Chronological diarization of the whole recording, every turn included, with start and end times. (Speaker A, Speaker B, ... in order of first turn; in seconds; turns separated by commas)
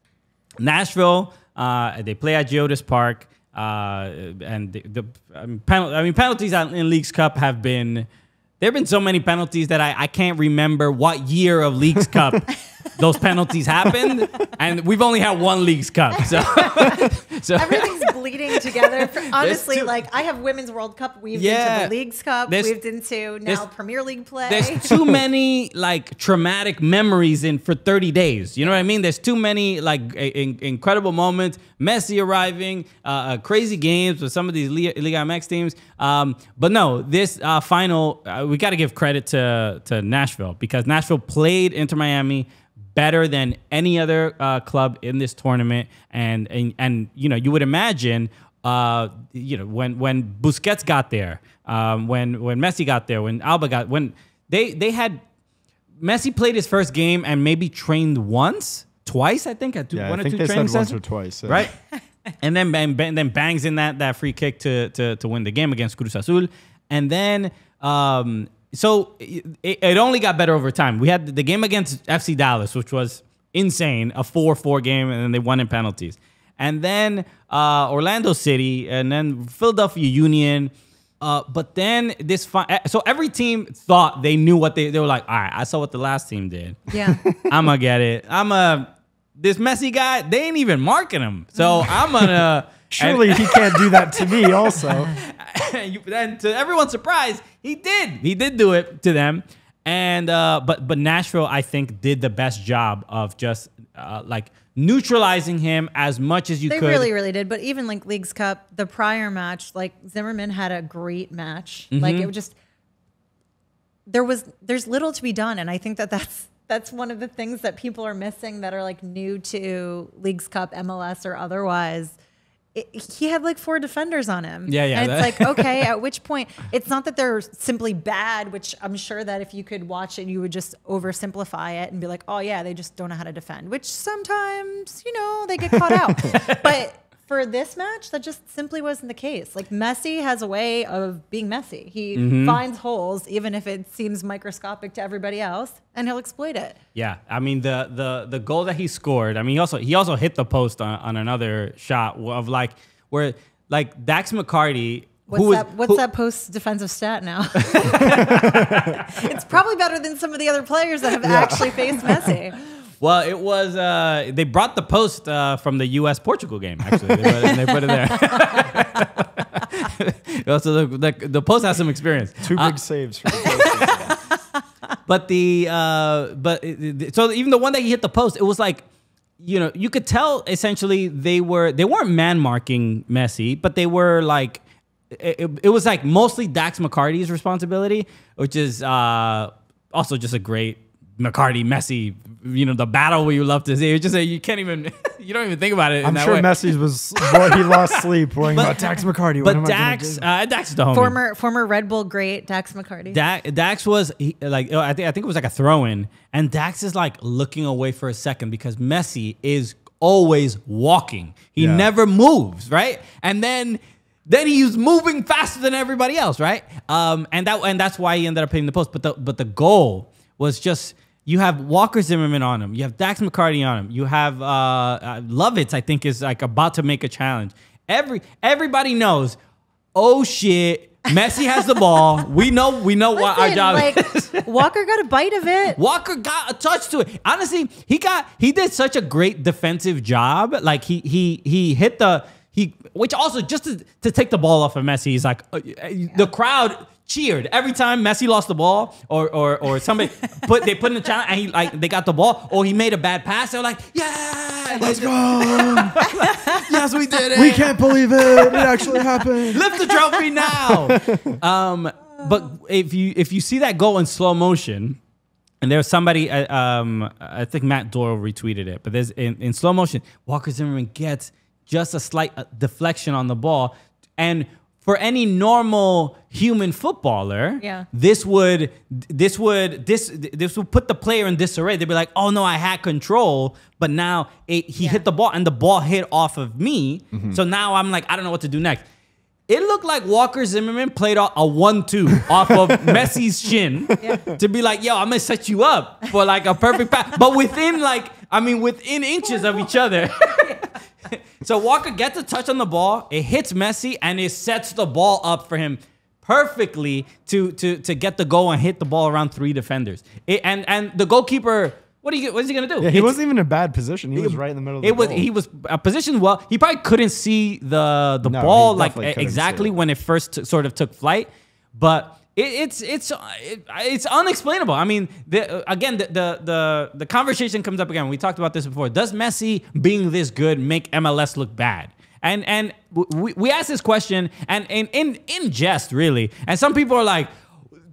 Speaker A: 0.6-8.1, Speaker A: 8.6-19.9, Speaker B: 16.4-24.9, Speaker A: 21.3-21.9, Speaker A: 22.5-22.7, Speaker A: 24.5-55.2, Speaker A: 56.0-61.7, Speaker C: 59.9-61.7, Speaker A: 62.4-107.1, Speaker B: 86.9-87.2, Speaker C: 92.9-95.1, Speaker B: 106.7-112.5, Speaker A: 111.9-112.3, Speaker B: 114.1-122.2, Speaker B: 122.8-146.8, Speaker A: 124.7-125.9, Speaker A: 136.3-136.6, Speaker A: 142.2-142.6, Speaker A: 146.9-156.0, Speaker B: 155.3-162.6, Speaker A: 157.7-159.1, Speaker C: 161.2-162.2, Speaker A: 163.0-172.8, Speaker C: 172.4-174.2, Speaker A: 173.3-173.8, Speaker B: 173.5-173.9, Speaker A: 175.1-178.8, Speaker A: 179.4-196.6, Speaker C: 196.0-200.2, Speaker A: 197.2-201.2, Speaker B: 200.9-203.2, Speaker A: 203.1-229.4, Speaker C: 211.6-211.9, Speaker A: 229.9-234.4, Speaker B: 233.2-235.8, Speaker A: 235.8-265.0, Speaker C: 254.8-256.0, Speaker C: 257.3-259.7, Speaker C: 260.5-261.3, Speaker A: 265.6-288.9, Speaker B: 277.6-277.9, Speaker C: 287.1-287.4, Speaker A: 289.5-313.2, Speaker B: 294.0-294.2, Speaker C: 312.8-315.3, Speaker A: 314.1-337.3, Speaker C: 318.2-319.8